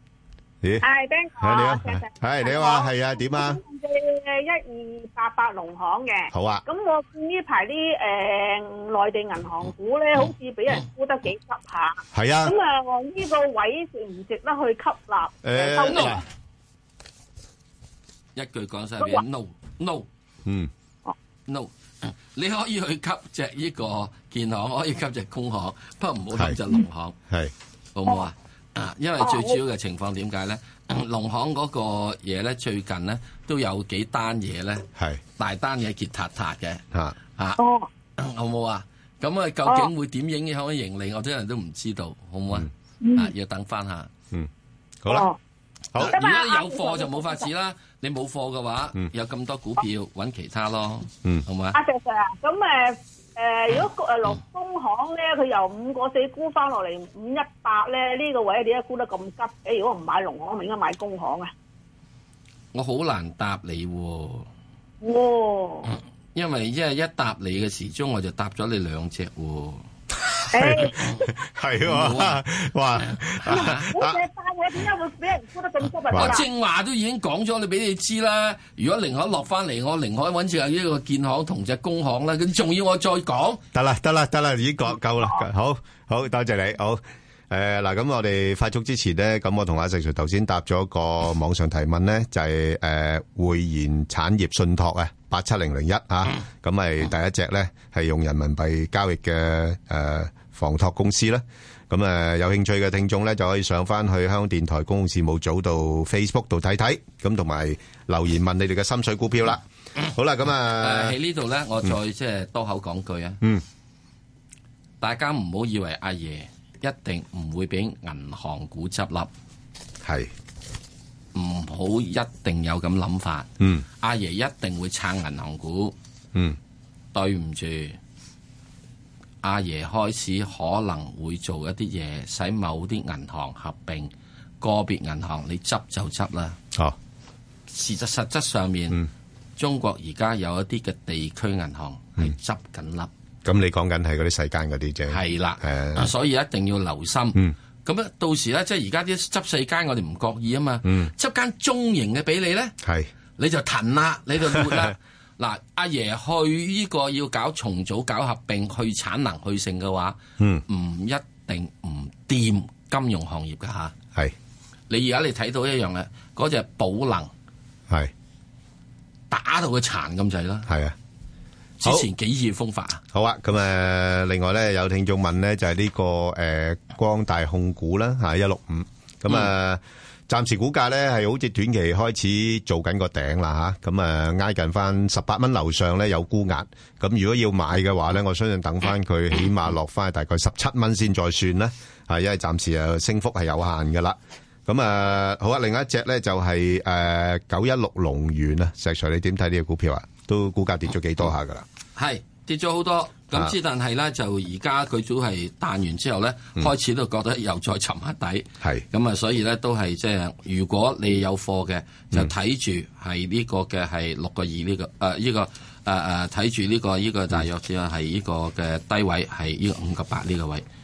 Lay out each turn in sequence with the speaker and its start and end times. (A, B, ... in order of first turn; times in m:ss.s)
0:00.8-0:16.2 A
0:01.4-0:03.6 B
0:06.3-0:06.6 B
0:12.1-0:12.5 B
0:15.4-0:16.2 B
0:18.3-0:20.0 C
0:20.4-0:20.7 B
0:21.5-0:27.1 C
0:28.0-0:34.8 C
0:29.2-0:29.6 A
0:35.0-0:35.2 B
0:35.4-0:36.8 C
0:37.6-0:37.9 A
0:38.2-0:44.1 C
0:43.0-0:43.3 A
0:45.0-0:45.3 B
0:45.1-0:45.4 A
0:46.0-0:51.8 C
0:46.0-0:47.5 A
0:51.7-1:01.5 A
1:02.7-1:04.5 C
1:05.0-1:05.9 A
1:06.3-1:09.8 C
1:10.3-1:14.2 B
1:10.6-1:11.1 A
1:11.8-1:12.4 C
1:13.4-1:13.9 C
1:13.8-1:16.4 A
1:16.1-1:16.4 B
1:16.2-1:23.6 C
1:23.7-1:51.2 B
1:50.8-1:53.4 C
1:55.0-1:59.3 C
2:00.0-2:00.3 B
2:01.3-2:05.9 C
2:03.6-2:03.8 B
2:07.1-2:08.0 C
2:09.4-2:16.6 C
2:17.7-2:19.0 C
2:19.6-2:23.1 C
2:23.4-2:26.1 B
2:25.1-2:32.7 C
2:30.8-2:31.1 B
2:32.8-2:33.1 B
2:33.4-2:43.9 C
2:34.6-2:34.9 B
2:44.9-2:47.3 C
2:49.3-2:50.7 C
2:50.7-2:51.0 B
2:51.8-2:53.0 C
2:53.1-3:21.6 B
3:22.0-3:40.6 C